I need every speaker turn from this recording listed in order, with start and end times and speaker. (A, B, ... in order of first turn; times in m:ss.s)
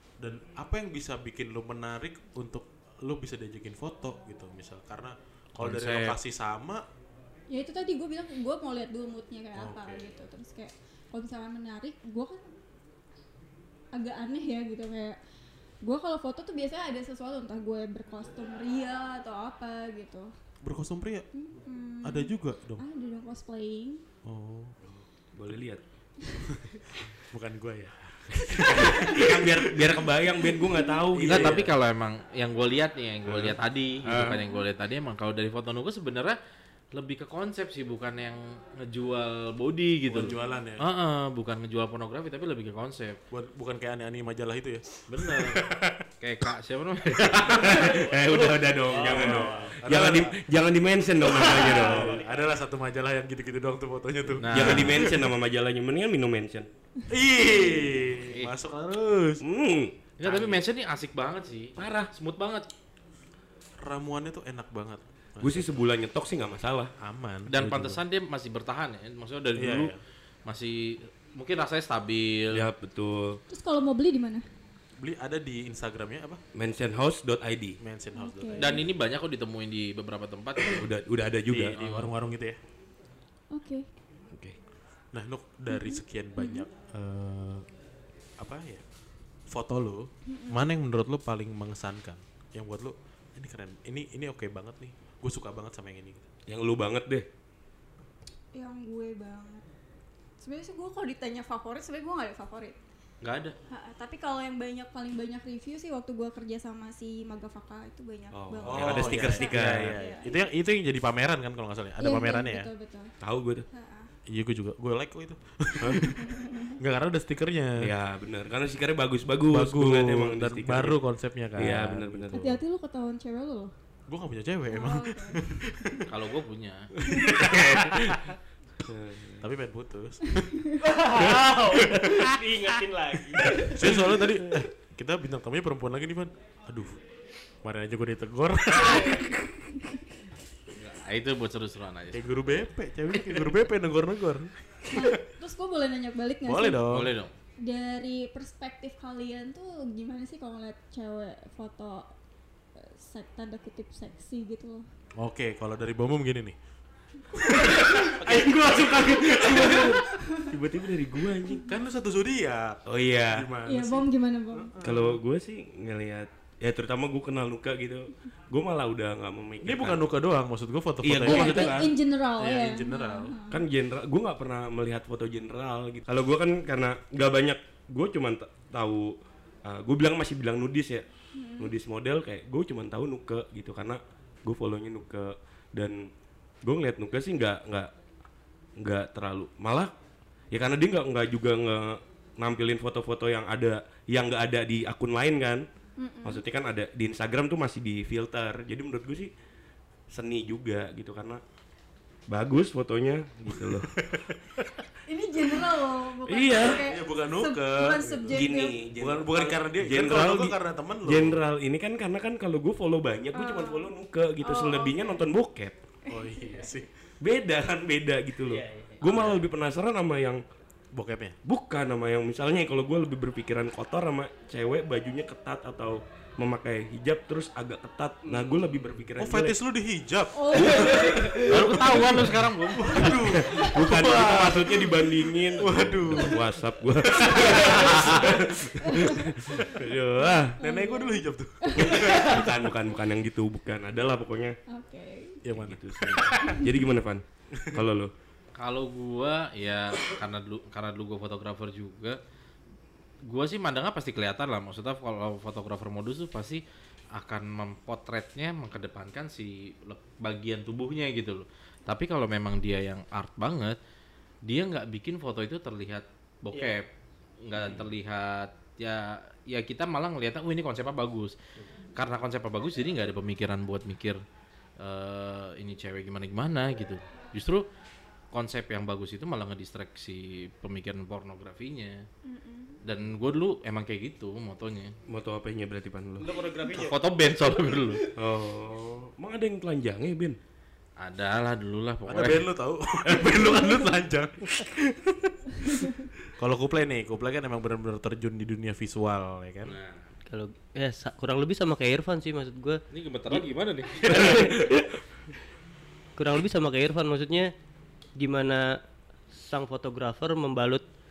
0:00.2-0:06.8 A
0:05.6-0:06.2 B
0:07.5-0:12.5 C
0:09.5-0:10.1 A
0:13.9-0:15.2 C
0:15.8-0:20.3 C
0:20.6-0:21.2 A
0:21.3-0:24.0 C
0:22.0-0:22.8 A
0:24.2-0:24.7 A
0:24.8-0:25.8 D
0:26.5-0:31.7 A
0:28.7-0:31.7 D
0:31.2-0:36.4 B
0:33.3-0:34.4 A
0:36.9-0:43.2 B
0:40.1-0:40.8 A
0:43.3-0:46.0 A
0:45.1-0:45.6 B
0:46.2-0:47.8 B
0:47.3-0:48.0 A
0:47.5-0:52.2 D
0:47.8-0:49.7 E
0:48.9-0:50.4 A
0:51.3-0:55.3 A
0:51.4-0:52.4 E
0:54.4-0:55.1 B
0:54.5-0:56.7 D
0:57.1-0:59.4 A
0:57.4-0:58.0 C
0:59.4-1:00.6 D
1:00.2-1:02.6 B
1:03.8-1:05.7 A
1:05.4-1:06.9 D
1:07.0-1:08.0 A
1:07.5-1:09.9 B
1:09.6-1:10.0 A
1:10.4-1:12.7 B
1:12.5-1:13.4 D
1:13.5-1:14.4 C
1:15.0-1:16.4 A
1:16.5-1:17.8 D
1:17.8-1:18.8 A
1:18.1-1:18.8 C
1:18.6-1:20.9 B
1:20.7-1:21.8 D
1:21.5-1:22.6 A
1:21.8-1:22.1 B
1:23.5-1:23.9 C
1:24.3-1:24.6 D
1:25.1-1:27.6 A
1:25.7-1:26.6 C
1:28.4-1:28.8 A
1:29.5-1:36.3 A
1:30.3-1:30.6 C
1:36.5-1:37.2 D
1:38.5-1:39.6 C
1:40.4-1:42.8 C
1:43.2-1:43.6 B
1:43.7-1:50.3 C
1:48.3-1:49.9 D
1:48.6-1:52.7 A
1:49.5-1:49.9 B
1:52.0-1:53.1 C
1:53.2-1:53.6 D
1:53.7-1:54.1 C
1:54.3-1:57.9 A
1:57.8-2:01.0 D
1:59.5-2:02.4 A
2:01.5-2:02.6 D
2:02.3-2:03.7 C
2:04.1-2:06.0 A
2:04.7-2:05.4 C
2:06.1-2:06.9 B
2:07.1-2:08.2 A
2:07.2-2:08.2 D
2:08.8-2:09.4 D
2:09.4-2:10.6 A
2:10.8-2:14.5 E
2:11.1-2:12.2 A
2:13.6-2:17.0 A
2:17.6-2:19.4 A
2:18.9-2:19.2 C
2:20.7-2:22.3 B
2:22.1-2:25.2 A
2:24.9-2:26.9 C
2:26.4-2:27.1 A
2:26.9-2:27.3 B
2:27.6-2:32.1 C
2:32.7-2:34.9 C
2:35.2-2:36.5 A
2:37.3-2:39.9 A
2:37.6-2:41.7 D
2:39.7-2:40.5 C
2:41.7-2:45.2 A
2:42.8-2:43.5 D
2:43.6-2:44.8 C
2:44.8-2:50.1 D
2:49.6-2:51.8 A
2:51.0-2:51.9 D
2:51.2-2:53.6 C
2:52.4-2:53.4 A
2:53.5-3:01.0 D
3:01.3-3:01.7 C
3:01.6-3:06.0 D
3:06.6-3:07.9 D
3:08.8-3:09.9 D
3:10.5-3:15.6 D
3:16.0-3:16.4 C
3:16.2-3:19.3 D
3:20.1-3:21.4 D
3:22.3-3:23.9 D
3:24.0-3:24.7 A
3:25.1-3:28.8 C
3:26.2-3:26.8 D
3:26.6-3:31.4 A
3:28.3-3:35.8 D
3:33.3-3:33.9 C
3:34.4-3:35.2 C
3:36.1-3:36.7 C
3:36.1-3:36.9 A
3:37.2-3:40.4 D
3:38.4-3:39.1 E
3:39.1-3:39.4 A
3:40.9-3:41.4 A
3:41.4-3:49.6 D
3:48.2-3:48.6 E
3:49.2-3:55.1 A
3:50.3-3:51.4 C
3:50.5-3:52.0 D
3:51.4-3:53.2 B
3:53.0-4:00.6 D
3:53.5-3:53.9 C
3:55.6-3:56.5 A
3:57.0-4:02.4 A
3:58.8-3:59.2 C
4:00.6-4:02.6 C
4:01.8-4:04.6 D
4:04.7-4:05.4 C
4:05.4-4:06.6 A
4:05.5-4:08.1 D
4:08.6-4:12.2 B
4:13.2-4:16.6 B
4:17.2-4:23.8 B
4:24.4-4:26.9 B
4:26.5-4:26.8 E
4:27.4-4:31.3 B
4:32.0-4:34.2 B
4:34.8-4:37.6 B
4:38.3-4:42.0 B
4:42.2-4:42.8 C
4:42.8-4:44.9 B
4:45.1-4:46.3 D
4:46.2-4:47.0 E
4:46.7-4:48.0 B
4:47.6-4:48.1 E
4:48.1-4:50.4 D
4:51.0-4:52.5 B
4:52.1-4:59.8 A
4:59.6-5:00.0 B
5:00.3-5:03.5 E
5:02.9-5:04.5 B
5:04.0-5:05.0 E
5:04.2-5:04.5 D
5:06.2-5:07.5 E
5:08.2-5:10.8 E